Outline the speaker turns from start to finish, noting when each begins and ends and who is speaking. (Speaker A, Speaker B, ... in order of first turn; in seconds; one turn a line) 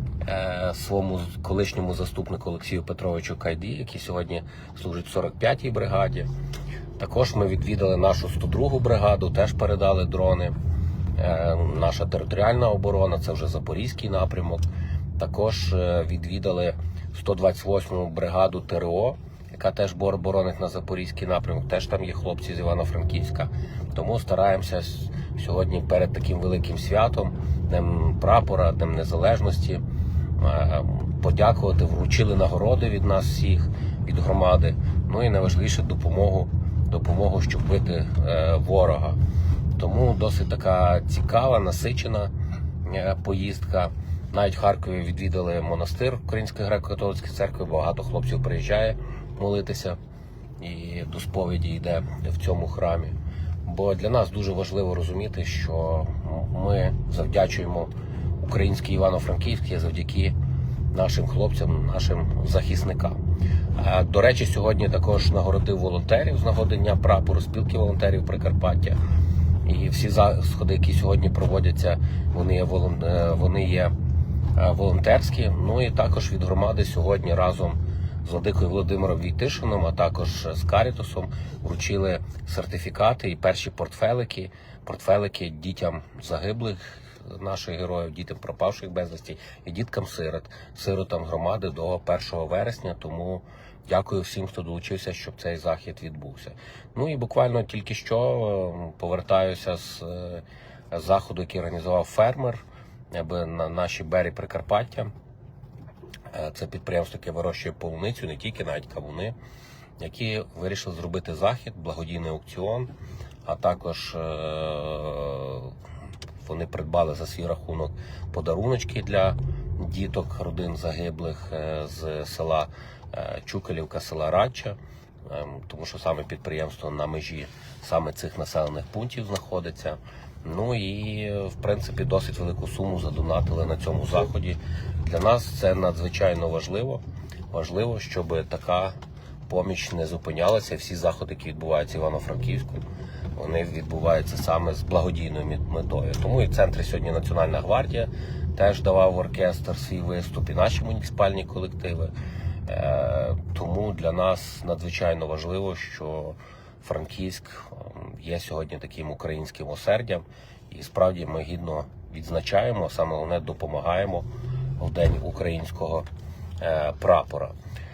Speaker A: 0.2-6.3
Speaker A: 7.0-10.6
Speaker A: 11.2-14.7
Speaker A: 15.2-29.8
Speaker A: 30.4-39.2
Speaker A: 39.8-42.3
Speaker A: 42.9-50.0
Speaker A: 50.6-53.1
Speaker A: 53.7-60.4
Speaker A: 60.9-63.2
Speaker A: 63.8-69.0
Speaker A: 69.7-73.9
Speaker A: 74.6-105.1
Speaker A: 106.3-109.3
Speaker A: 110.0-112.9
Speaker A: 113.5-115.8
Speaker A: 116.4-139.0
Speaker A: 139.5-142.8
Speaker A: 143.4-152.1
Speaker A: 152.7-164.3
Speaker A: 164.8-166.1
Speaker A: 166.6-167.6